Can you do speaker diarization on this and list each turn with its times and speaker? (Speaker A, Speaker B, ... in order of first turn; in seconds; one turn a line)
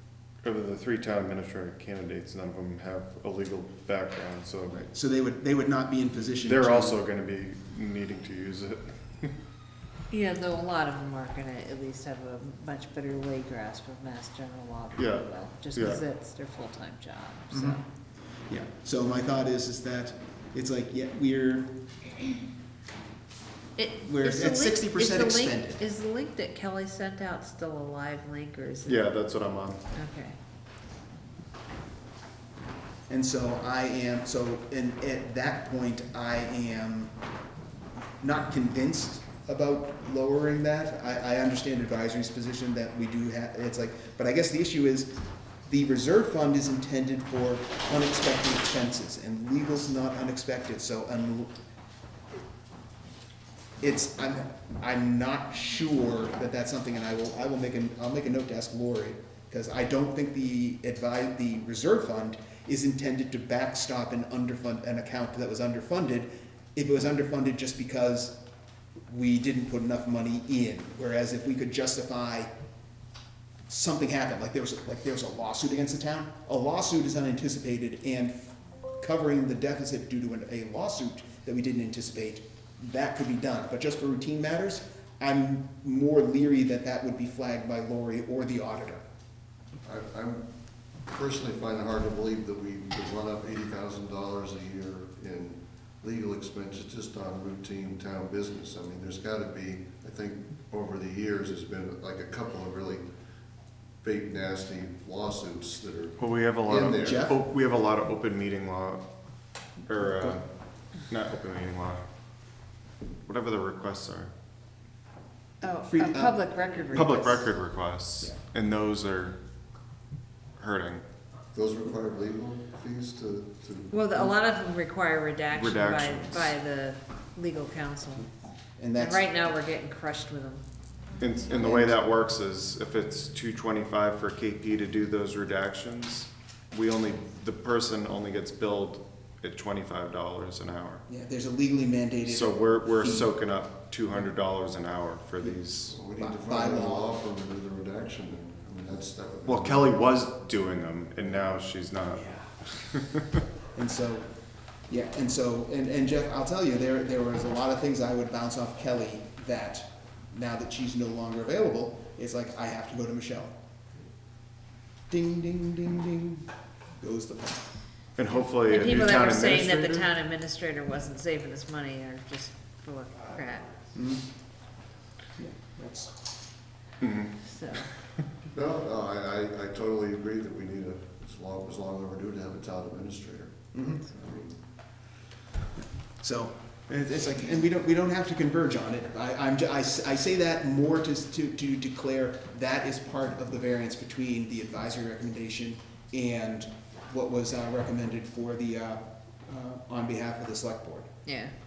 Speaker A: 0.4-4.9
Speaker B: 4.9-7.0
Speaker A: 6.4-9.3
Speaker C: 10.1-17.8
Speaker A: 14.9-16.0
Speaker B: 17.5-17.8
Speaker B: 18.5-21.8
Speaker C: 23.8-29.0
Speaker B: 24.0-25.8
Speaker A: 28.8-29.8
Speaker C: 29.9-30.4
Speaker B: 33.1-37.1
Speaker B: 38.2-45.1
Speaker B: 45.6-51.5
Speaker B: 53.8-68.4
Speaker B: 69.1-72.5
Speaker B: 73.7-89.0
Speaker D: 89.8-90.4
Speaker D: 91.0-103.0
Speaker D: 104.0-107.2
Speaker A: 106.2-109.0
Speaker B: 106.9-107.4
Speaker A: 109.8-110.5
Speaker A: 111.0-112.0
Speaker A: 113.2-114.3
Speaker C: 115.6-117.4
Speaker B: 115.9-116.5
Speaker A: 116.9-119.4
Speaker A: 120.6-121.0
Speaker D: 121.5-123.9
Speaker C: 123.9-128.3
Speaker A: 125.5-126.5
Speaker B: 128.8-129.3
Speaker C: 129.0-130.6
Speaker A: 131.2-141.0
Speaker B: 131.5-132.0
Speaker B: 141.1-143.3
Speaker A: 142.3-145.9
Speaker D: 145.9-150.0
Speaker B: 146.2-147.1
Speaker A: 149.4-153.4
Speaker B: 153.7-154.3
Speaker B: 154.9-163.5
Speaker B: 165.1-166.5
Speaker B: 167.0-167.6
Speaker A: 168.2-170.1
Speaker C: 168.6-173.7
Speaker B: 173.9-174.2
Speaker B: 175.4-176.1
Speaker A: 177.0-177.3
Speaker C: 177.5-177.9
Speaker D: 178.5-184.5
Speaker B: 183.7-184.0
Speaker B: 186.2-201.1
Speaker C: 201.2-201.5